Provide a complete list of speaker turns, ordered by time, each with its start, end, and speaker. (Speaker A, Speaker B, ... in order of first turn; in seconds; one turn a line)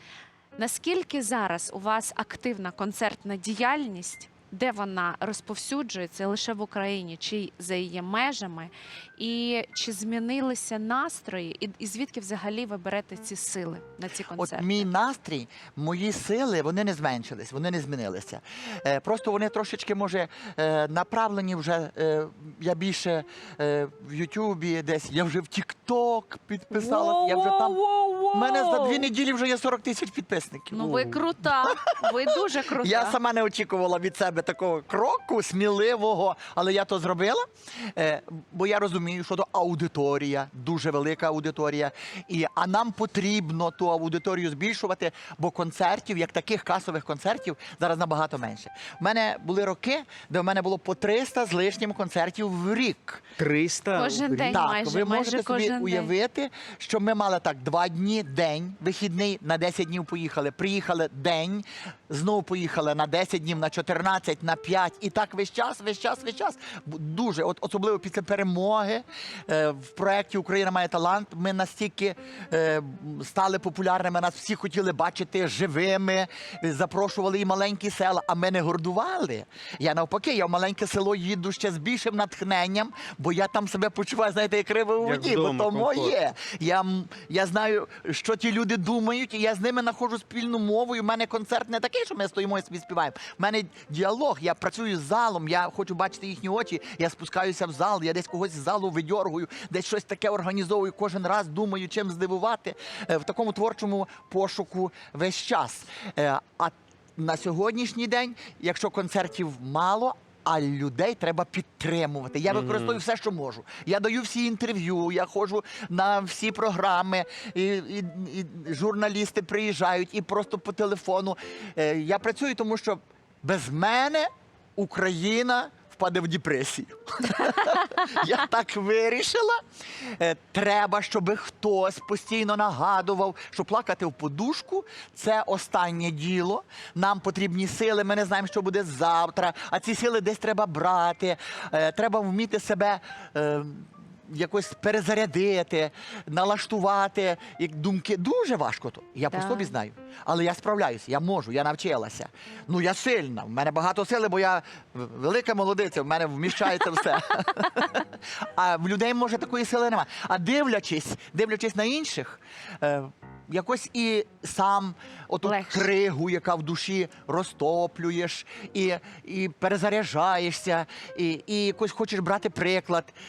Speaker A: 0.6-14.8
Speaker B: 14.3-27.8
Speaker A: 26.8-29.1
Speaker B: 28.3-31.7
Speaker A: 30.7-33.2
Speaker B: 32.3-53.2
Speaker C: 53.4-54.6
Speaker A: 53.9-56.1
Speaker B: 54.5-173.1
Speaker C: 85.0-86.1
Speaker C: 112.5-113.0
Speaker A: 149.3-149.7
Speaker A: 165.4-165.8